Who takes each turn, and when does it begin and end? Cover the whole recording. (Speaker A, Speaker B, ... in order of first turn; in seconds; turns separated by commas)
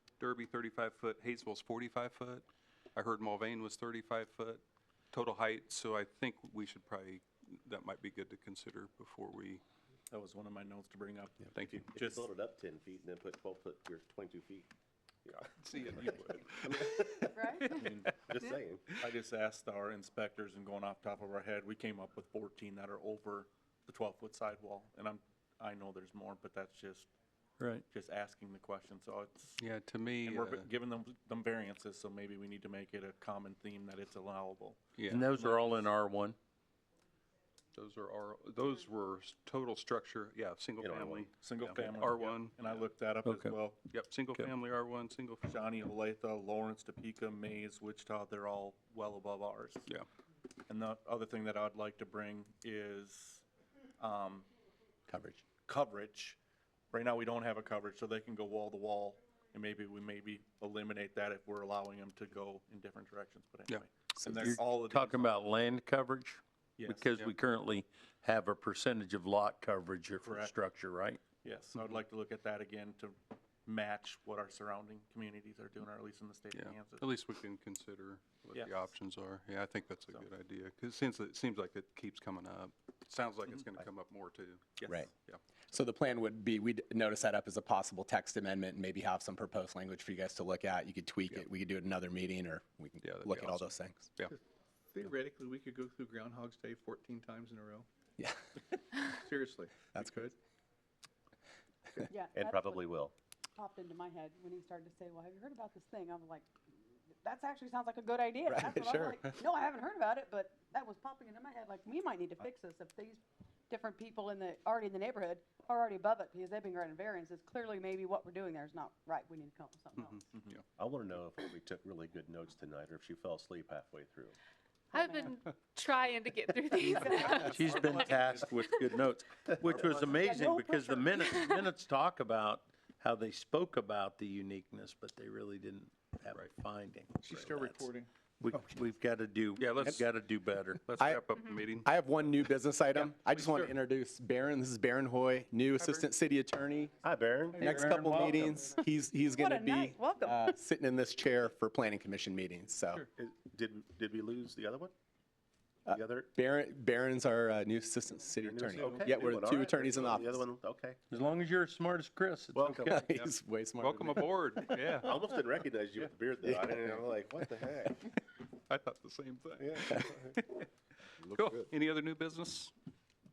Speaker A: 0.2-2.4, Speaker A: 2.9-4.6, Speaker A: 5.1-9.6, Speaker B: 10.1-12.2, Speaker A: 11.5-11.9, Speaker C: 11.9-14.7, Speaker C: 15.2-18.9, Speaker A: 15.6-17.8, Speaker D: 17.2-17.8, Speaker B: 17.7-18.1, Speaker B: 19.0-27.1, Speaker E: 27.6-27.8, Speaker B: 27.9-29.6, Speaker A: 29.6-30.7, Speaker B: 30.2-35.9, Speaker A: 35.0-35.3, Speaker E: 35.1-36.4, Speaker A: 37.7-42.8, Speaker C: 40.8-41.3, Speaker B: 41.4-43.8, Speaker E: 43.2-43.6, Speaker A: 43.4-45.4, Speaker B: 45.4-49.9, Speaker B: 50.7-53.4, Speaker B: 54.0-54.5, Speaker F: 55.1-55.4, Speaker B: 55.6-56.4, Speaker B: 56.9-65.4, Speaker F: 64.2-64.6, Speaker E: 64.4-71.3, Speaker B: 66.8-67.1, Speaker B: 70.2-70.6, Speaker B: 71.3-77.0, Speaker A: 76.5-85.4, Speaker B: 78.5-78.9, Speaker F: 85.7-94.1, Speaker A: 93.0-94.4, Speaker G: 94.9-97.9, Speaker H: 96.9-97.2, Speaker F: 98.2-99.0, Speaker G: 99.2-100.2, Speaker F: 99.9-100.3, Speaker D: 102.1-102.8, Speaker C: 102.3-103.1, Speaker D: 103.5-106.5, Speaker D: 107.2-120.2, Speaker F: 108.4-109.3, Speaker A: 120.0-120.6, Speaker C: 120.8-124.3, Speaker D: 124.9-125.4, Speaker H: 124.9-128.8, Speaker D: 126.7-127.6, Speaker E: 127.4-137.9, Speaker D: 129.7-131.4, Speaker G: 137.2-138.1, Speaker E: 138.4-140.8, Speaker A: 139.6-141.9, Speaker F: 140.9-147.0, Speaker C: 147.0-147.9, Speaker F: 147.5-153.1, Speaker G: 147.7-148.3, Speaker H: 148.2-148.6, Speaker D: 149.3-150.5, Speaker C: 153.1-154.9, Speaker C: 155.9-156.3, Speaker F: 155.9-160.4, Speaker C: 158.4-161.0, Speaker E: 161.1-163.0, Speaker C: 162.5-163.0, Speaker F: 162.8-165.1, Speaker A: 163.0-165.3, Speaker C: 164.7-168.0, Speaker F: 166.4-167.0, Speaker A: 168.7-170.7, Speaker C: 169.6-170.4, Speaker C: 171.2-171.7, Speaker A: 171.3-172.7